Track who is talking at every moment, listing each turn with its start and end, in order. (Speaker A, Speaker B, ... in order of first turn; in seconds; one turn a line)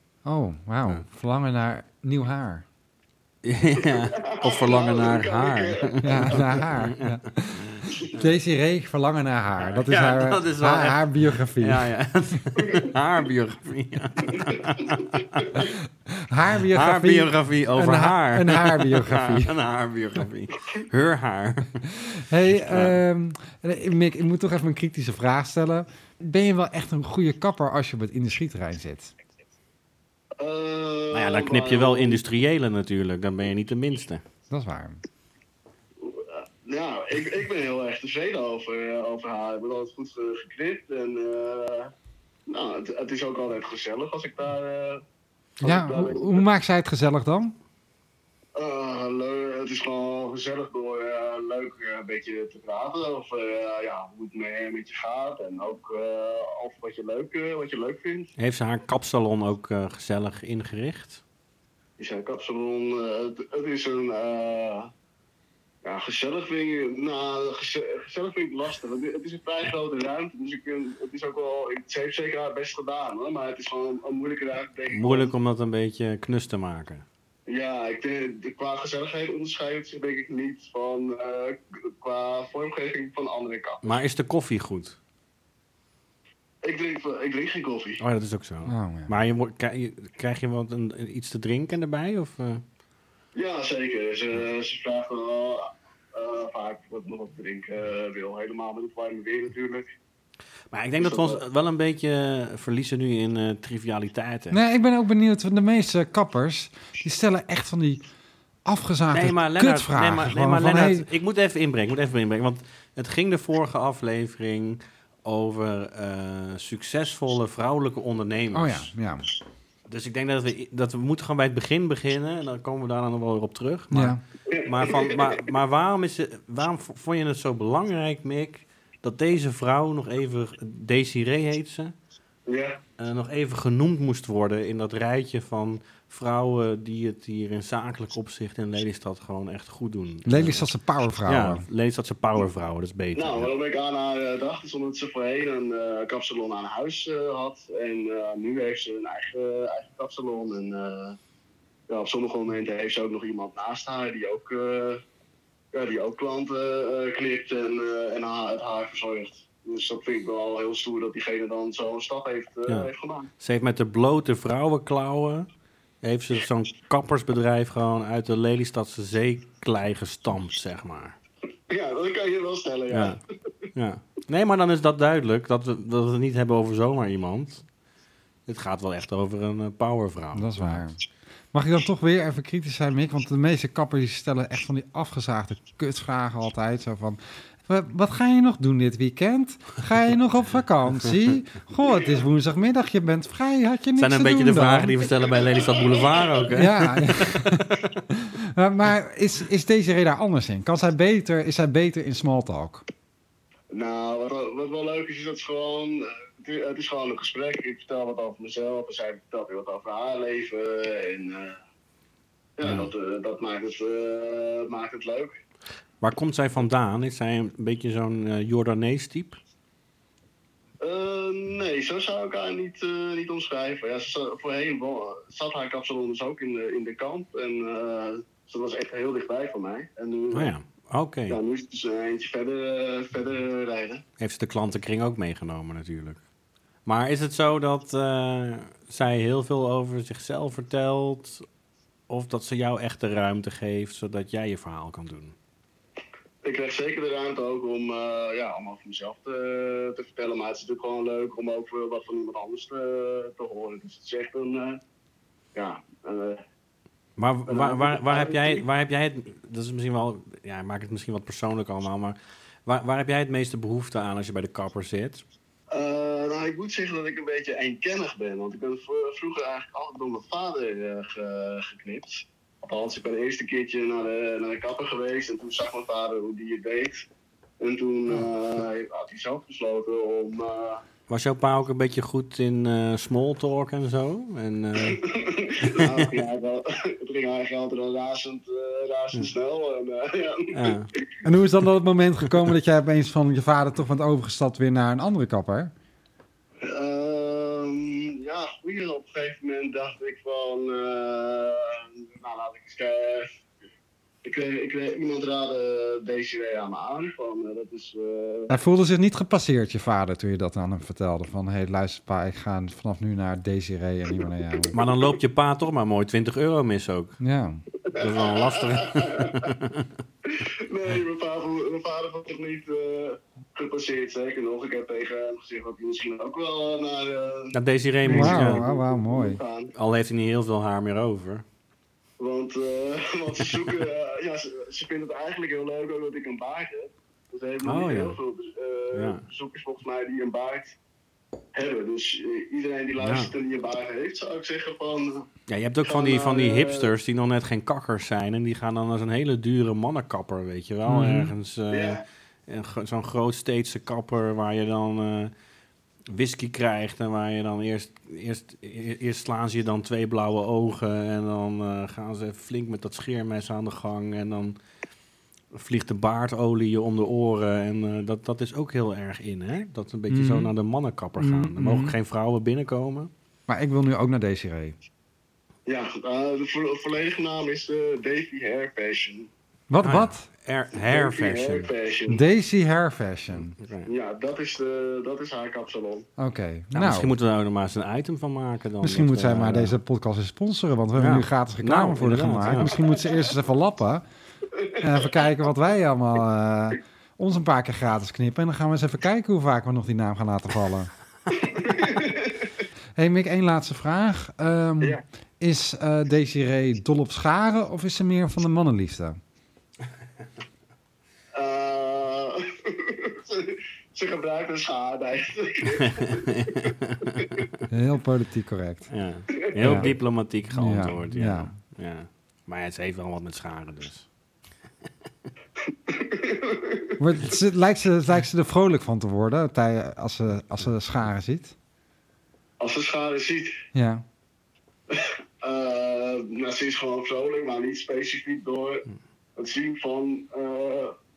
Speaker A: 0.2-2.6
Speaker B: 3.4-8.1
Speaker C: 3.8-6.7
Speaker A: 6.0-11.9
Speaker B: 9.6-15.7
Speaker A: 16.1-19.5
Speaker B: 16.7-21.9
Speaker A: 22.0-29.1
Speaker B: 22.5-23.0
Speaker C: 30.4-32.2
Speaker B: 31.1-34.2
Speaker A: 34.5-35.0
Speaker C: 36.0-41.9
Speaker C: 42.5-45.0
Speaker C: 45.6-46.4
Speaker A: 45.6-47.5
Speaker C: 48.5-58.3
Speaker B: 58.4-61.2
Speaker C: 62.0-64.9
Speaker C: 65.8-75.3
Speaker B: 74.9-77.0
Speaker C: 77.5-83.8
Speaker B: 83.8-85.0
Speaker C: 86.6-88.0
Speaker B: 88.0-92.6
Speaker A: 88.7-89.1
Speaker C: 93.3-99.8
Speaker B: 100.7-104.6
Speaker C: 101.0-101.4
Speaker A: 104.5-108.0
Speaker A: 108.6-111.1
Speaker B: 109.1-118.9
Speaker A: 118.5-119.2
Speaker B: 119.9-131.9
Speaker A: 123.9-124.2
Speaker C: 124.5-125.4
Speaker C: 132.5-132.8
Speaker B: 133.0-140.7
Speaker A: 140.2-141.6
Speaker B: 141.2-143.5
Speaker C: 143.1-151.2
Speaker C: 151.9-155.0
Speaker C: 155.7-163.3
Speaker B: 162.7-165.5
Speaker B: 166.0-171.2
Speaker C: 171.7-173.2
Speaker B: 172.9-173.2
Speaker B: 173.7-177.6
Speaker B: 178.5-180.8
Speaker A: 180.3-181.0
Speaker A: 181.5-194.9
Speaker B: 194.0-197.9
Speaker C: 195.2-196.4
Speaker A: 196.5-202.8
Speaker C: 203.7-211.6
Speaker C: 212.6-215.3
Speaker B: 216.0-219.4
Speaker C: 220.8-230.5
Speaker B: 230.3-231.4
Speaker C: 231.3-234.0
Speaker B: 234.2-236.2
Speaker B: 236.8-241.4
Speaker B: 242.1-245.3
Speaker C: 246.4-254.8
Speaker C: 255.5-256.4
Speaker B: 257.2-265.2
Speaker C: 257.5-258.6
Speaker C: 265.7-277.0
Speaker C: 277.6-280.8
Speaker B: 281.1-285.0
Speaker C: 284.8-290.7
Speaker B: 285.6-286.2
Speaker B: 290.5-290.9
Speaker A: 291.2-295.7
Speaker C: 296.6-303.3
Speaker C: 304.2-308.6
Speaker A: 308.5-314.7
Speaker B: 314.7-317.2
Speaker A: 317.2-317.6
Speaker C: 317.9-319.5
Speaker B: 317.9-319.9
Speaker C: 320.2-327.5
Speaker B: 327.5-328.6
Speaker C: 328.0-329.7
Speaker A: 328.1-329.4
Speaker B: 329.7-331.4
Speaker C: 332.2-340.8
Speaker B: 337.6-338.2
Speaker B: 338.9-339.2
Speaker C: 341.5-345.3
Speaker B: 343.0-343.3
Speaker B: 345.5-355.3
Speaker C: 345.8-346.9
Speaker A: 350.9-351.3
Speaker C: 351.7-352.0
Speaker B: 356.1-364.6
Speaker B: 365.5-373.1
Speaker A: 370.1-370.5
Speaker A: 371.2-371.9
Speaker A: 373.5-374.8
Speaker C: 375.7-379.3
Speaker A: 379.7-380.3
Speaker B: 379.8-381.7
Speaker C: 380.8-382.2
Speaker A: 382.1-383.6
Speaker B: 383.5-383.9
Speaker C: 383.9-386.1
Speaker A: 386.2-387.1
Speaker B: 386.7-389.8
Speaker A: 388.8-394.0
Speaker B: 390.9-392.8
Speaker C: 394.5-394.9
Speaker A: 394.8-400.9
Speaker C: 401.3-402.4
Speaker A: 402.9-409.2
Speaker C: 411.3-417.4
Speaker B: 415.8-417.6
Speaker A: 417.7-418.9
Speaker B: 418.9-424.1
Speaker C: 419.3-419.8
Speaker A: 419.6-419.9
Speaker A: 420.5-421.5
Speaker C: 425.6-427.0
Speaker A: 427.0-431.5
Speaker C: 432.6-433.6
Speaker A: 433.7-434.0
Speaker C: 434.9-440.9